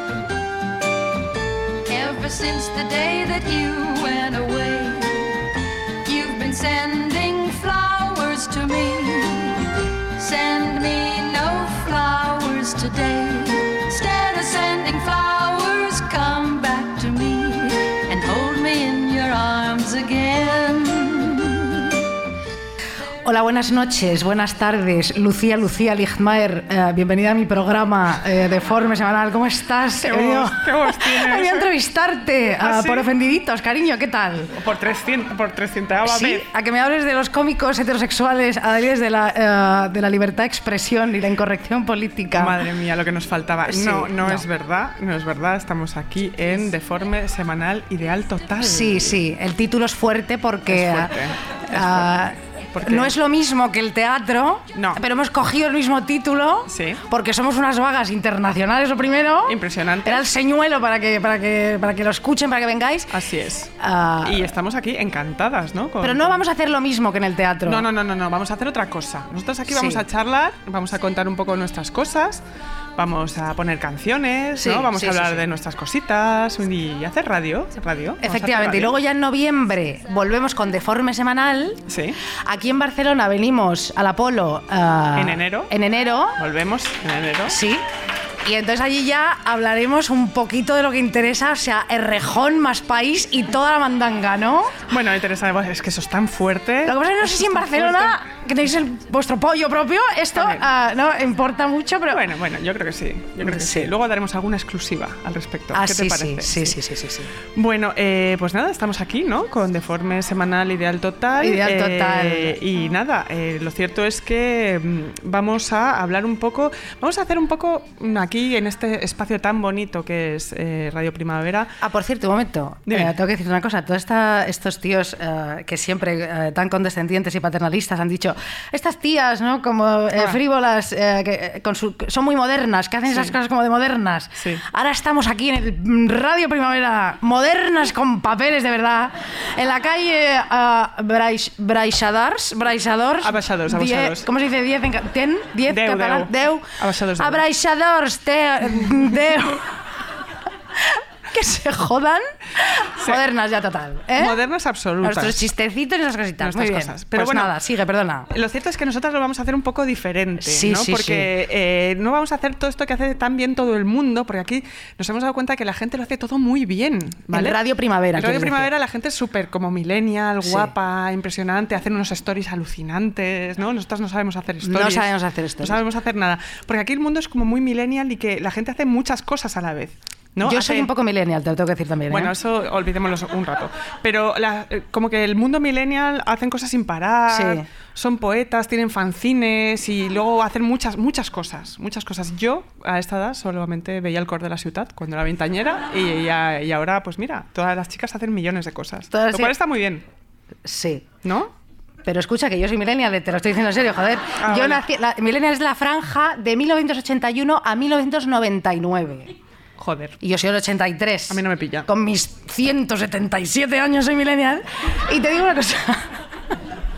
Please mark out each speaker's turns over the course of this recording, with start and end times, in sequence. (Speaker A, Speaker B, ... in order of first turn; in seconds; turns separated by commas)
Speaker A: 1.9-5.4, Speaker A: 6.0-21.9, Speaker B: 23.2-34.5, Speaker C: 30.0-31.7, Speaker C: 32.6-33.1, Speaker C: 34.5-36.4, Speaker B: 36.0-42.5, Speaker C: 42.4-49.2, Speaker B: 43.7-44.5, Speaker B: 48.6-51.1, Speaker C: 50.7-53.1, Speaker B: 51.7-63.1, Speaker C: 54.7-55.0, Speaker C: 56.7-57.0, Speaker C: 59.5-60.2, Speaker C: 63.1-66.4, Speaker B: 63.8-64.5, Speaker B: 66.0-67.8, Speaker C: 67.6-72.4, Speaker B: 69.7-70.0, Speaker C: 73.0-79.0, Speaker B: 74.6-75.4, Speaker B: 78.2-86.4, Speaker C: 81.9-82.2, Speaker C: 85.2-85.7, Speaker C: 86.4-87.6, Speaker B: 87.5-87.8, Speaker B: 88.4-94.8, Speaker C: 94.9-98.2, Speaker B: 96.8-102.2, Speaker C: 100.3-100.6, Speaker C: 102.1-106.8, Speaker B: 103.4-103.9, Speaker B: 105.7-107.3, Speaker C: 107.5-121.8, Speaker B: 111.4-112.6, Speaker B: 121.8-149.8, Speaker C: 122.9-123.1, Speaker C: 133.1-133.3, Speaker C: 134.4-134.6, Speaker C: 143.2-144.3, Speaker C: 145.7-147.4, Speaker B: 150.8-154.4, Speaker C: 154.1-155.5, Speaker B: 155.0-158.3, Speaker C: 156.4-157.5, Speaker C: 158.3-167.6, Speaker B: 160.4-161.3, Speaker B: 167.3-168.7, Speaker C: 168.1-180.9, Speaker B: 170.4-170.7, Speaker B: 174.6-175.8, Speaker B: 180.4-182.3, Speaker C: 182.1-200.0, Speaker B: 187.3-187.6, Speaker B: 199.1-199.5, Speaker B: 200.6-201.1, Speaker C: 201.2-201.5, Speaker B: 202.0-209.3, Speaker C: 204.4-204.8, Speaker C: 209.8-210.2, Speaker B: 210.2-216.1, Speaker C: 211.3-211.9